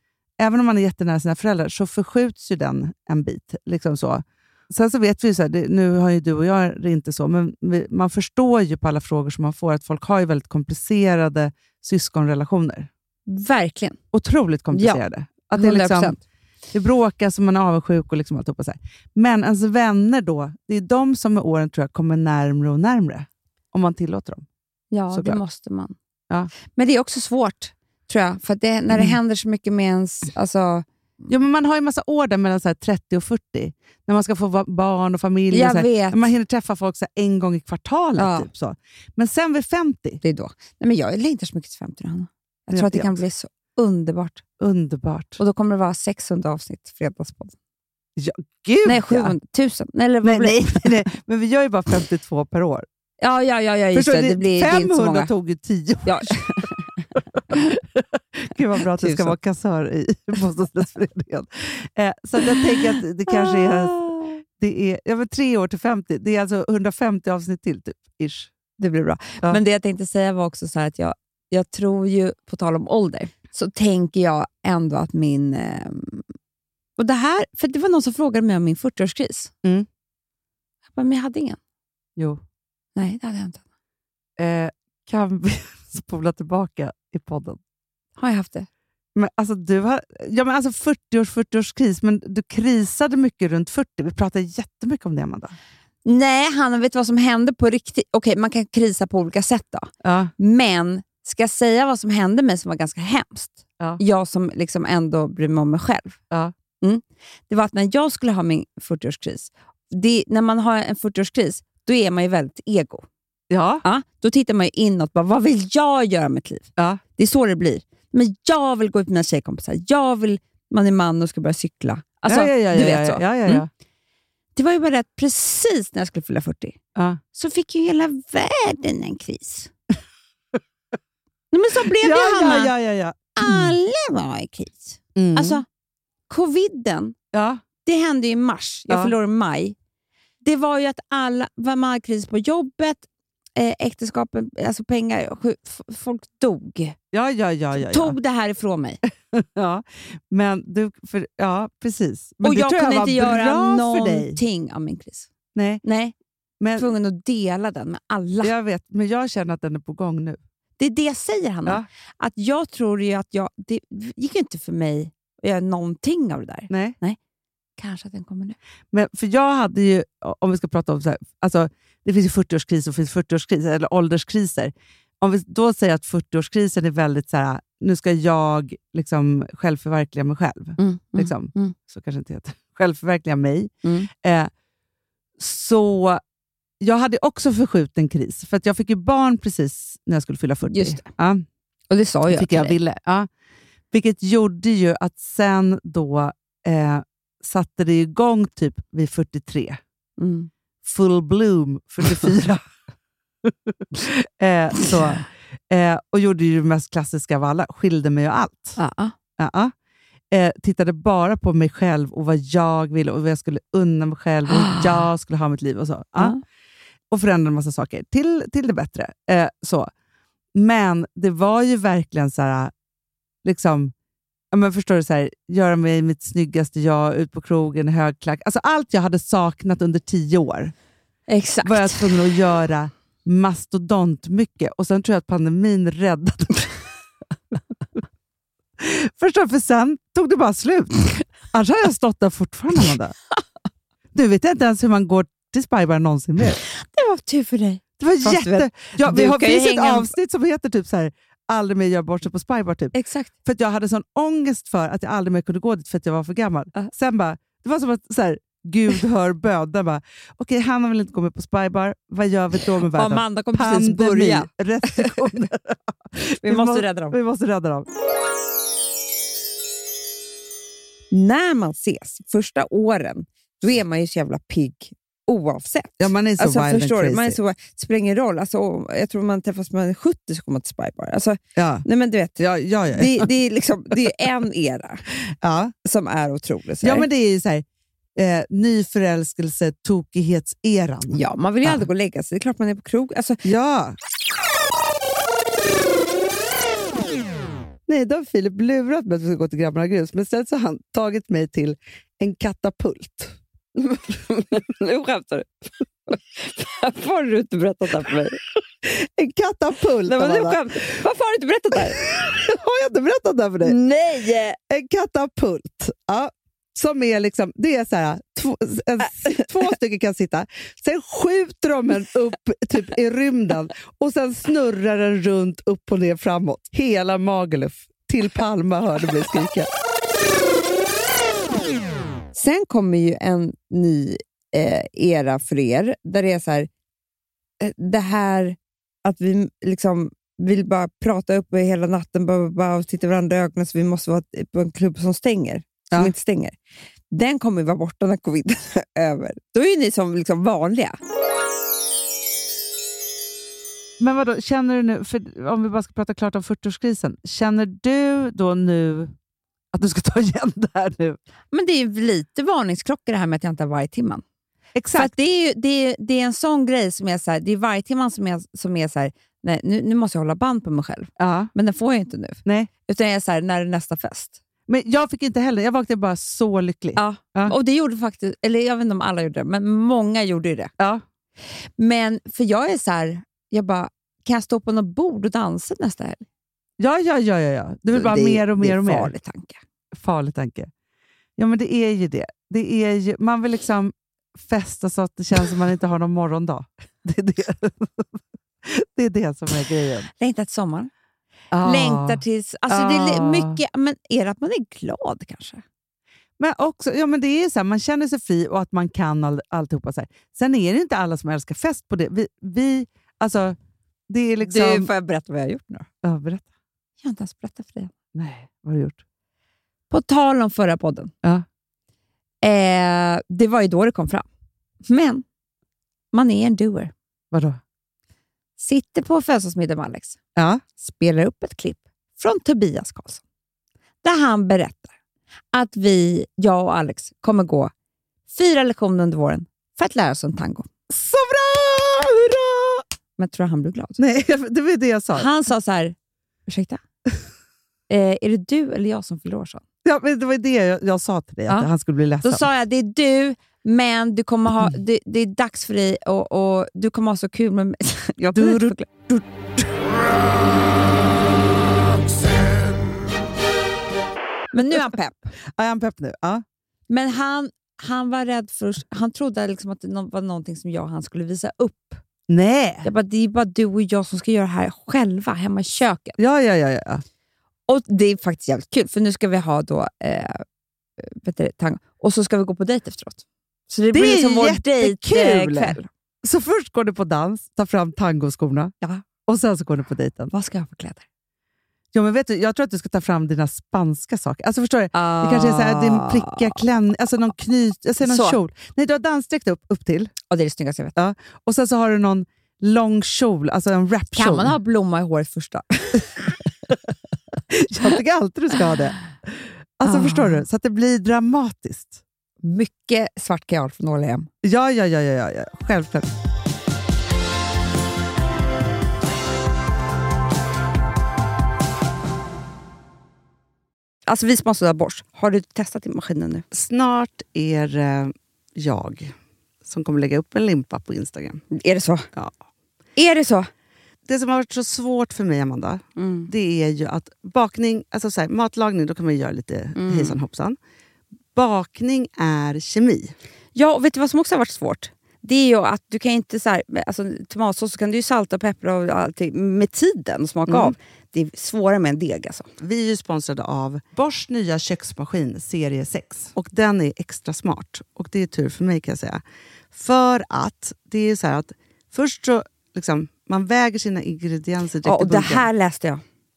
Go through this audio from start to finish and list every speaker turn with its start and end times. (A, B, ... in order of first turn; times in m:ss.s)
0:00.4-0:12.9 A
0:13.3-0:14.0 B
0:14.1-0:16.2 A
0:14.7-0:15.0 B
0:15.6-0:16.2 B
0:16.7-0:24.5 A
0:24.9-0:26.0 B
0:25.1-0:25.4 A
0:26.7-0:30.8 B
0:28.9-0:29.2 A
0:31.3-0:40.2 A
0:35.5-0:36.3 B
0:38.2-0:38.5 B
0:40.2-0:44.4 B
0:42.7-0:43.2 A
0:44.6-0:45.4 A
0:45.4-0:47.6 B
0:48.2-0:49.3 A
0:48.8-0:50.9 B
0:50.2-0:52.9 A
0:53.2-0:55.3 B
0:53.9-0:56.4 A
0:56.1-0:57.6 B
0:57.2-1:04.0 A
0:59.0-0:59.4 B
1:03.3-1:04.4 B
1:04.6-1:08.5 A
1:08.8-1:16.3 B
1:17.0-1:19.5 B
1:20.9-1:21.6 B
1:23.0-1:23.6 B
1:24.4-1:27.6 A
1:28.2-1:28.7 B
1:29.2-1:35.6 A
1:36.0-1:46.2 B
1:40.0-1:40.3 A
1:46.8-1:53.0 B
1:53.5-1:53.8 A
1:53.8-2:03.6 B
2:02.3-2:03.7 A
2:04.6-2:06.8 B
2:07.4-2:09.7 B
2:11.5-2:12.7 B
2:11.8-2:13.8 A
2:13.4-2:15.6 B
2:15.2-2:15.6 A
2:16.3-2:17.2 B
2:17.3-2:17.6 A
2:17.8-2:19.8 B
2:18.9-2:19.1 A
2:20.4-2:23.0 B
2:23.6-2:27.0 B
2:27.1-2:28.2 A
2:27.8-2:29.0 B
2:29.3-2:34.4 A
2:32.4-2:35.3 B
2:35.6-2:35.8 A
2:35.8-2:36.1 B
2:36.6-2:36.9 A
2:36.8-2:38.5 B
2:38.4-2:40.4 A
2:40.8-2:47.2 B
2:46.7-2:47.0 A
2:47.8-2:48.6 B
2:48.9-3:04.5 A
3:00.8-3:01.7 B
3:03.8-3:04.1 B
3:05.4-3:06.2 A
3:06.8-3:11.4 A
3:10.7-3:11.1 B
3:11.9-3:12.8 B
3:12.3-3:13.3 A
3:13.9-3:19.8 A
3:20.2-3:20.5 B
3:20.8-3:22.6 A
3:23.4-3:28.8 A
3:28.8-3:29.1 B
3:29.4-3:29.7 A
3:30.3-3:36.4 A
3:34.5-3:35.1 B
3:37.1-3:39.9 A
3:40.6-3:42.7 A
3:43.4-3:43.9 A
3:44.5-3:50.7 A
3:51.3-3:52.1 B
3:51.6-3:56.7 A
3:58.8-4:03.2 A
4:04.1-4:06.6 A
4:06.6-4:10.1 B
4:08.0-4:12.9 A
4:12.9-4:13.3 B
4:13.4-4:27.9 A
4:22.8-4:25.3 B
4:26.4-4:27.2 B
4:31.1-4:42.4 B
4:36.0-4:37.4 A
4:41.6-4:41.8 A
4:42.4-4:43.3 A
4:42.9-4:45.0 B
4:45.3-4:45.7 A
4:45.8-4:47.1 B
4:46.8-4:47.6 A
4:48.2-4:51.9 A
4:51.1-4:53.4 B
4:53.4-4:54.0 A
4:57.9-5:03.4 A
5:03.8-5:08.4 B
5:08.8-5:10.9 A
5:10.1-5:12.0 B
5:12.0-5:13.8 A
5:13.6-5:14.6 B
5:14.7-5:29.7 A
5:32.3-5:36.7 B
5:37.6-5:46.6 B
5:47.1-5:51.0 B
5:54.0-5:59.1 A
5:59.7-6:01.2 A
6:01.5-6:04.2 B
6:04.8-6:05.1 A
6:05.0-6:14.4 B
6:11.2-6:11.5 A
6:14.7-6:17.6 A
6:17.0-6:20.7 B
6:21.8-6:26.3 B
6:26.8-6:29.1 A
6:27.9-6:29.6 B
6:30.0-6:30.7 A
6:31.4-6:40.1 A
6:40.2-6:40.9 B
6:41.5-6:43.6 A
6:41.6-6:45.6 B
6:46.4-6:53.6 A
6:54.1-6:54.9 A
6:54.4-6:55.9 B
6:56.0-6:56.5 A
6:57.0-6:57.9 B
6:58.2-6:59.0 A
6:59.9-7:01.1 B
7:02.4-7:04.3 B
7:04.9-7:05.2 B
7:06.1-7:06.9 B
7:07.3-7:07.6 A
7:08.6-7:10.2 B
7:10.4-7:10.6 A
7:10.8-7:13.2 B
7:14.0-7:14.9 B
7:15.5-7:17.7 B
7:18.3-7:20.7 B
7:20.9-7:22.8 A
7:23.2-7:24.0 B
7:24.0-7:25.3 A
7:25.1-7:26.0 B
7:26.5-7:26.8 B
7:27.9-7:29.6 B
7:29.8-7:32.4 A
7:32.2-7:38.9 B
7:38.2-7:39.6 A
7:44.5-7:45.3 B
7:45.6-7:46.4 A
7:46.9-7:52.0 B
7:52.3-7:52.9 A
7:52.8-7:56.2 B
7:56.2-7:57.0 A
7:57.7-8:00.4 B
8:01.0-8:05.9 B
8:03.9-8:08.7 A
8:09.2-8:10.3 A
8:10.3-8:11.0 B
8:11.9-8:20.1 A
8:14.9-8:16.6 B
8:18.0-8:18.4 B
8:20.3-8:21.0 B
8:21.0-8:24.6 A
8:24.1-8:26.2 B
8:27.5-8:29.1 A
8:29.8-8:32.0 A
8:29.8-8:30.4 B
8:32.4-8:34.3 B
8:34.4-8:36.1 A
8:44.1-8:46.4 B
8:46.5-8:49.1 A
8:49.6-8:51.4 A
8:51.5-8:52.1 B
8:53.0-8:53.5 B
8:54.1-9:00.6 A
8:56.0-8:56.3 B
8:59.8-9:00.2 B
9:01.4-9:03.1 A
9:03.6-9:12.5 B
9:10.5-9:10.7 A
9:12.6-9:19.2 A
9:19.7-9:25.5 A
9:24.8-9:26.0 B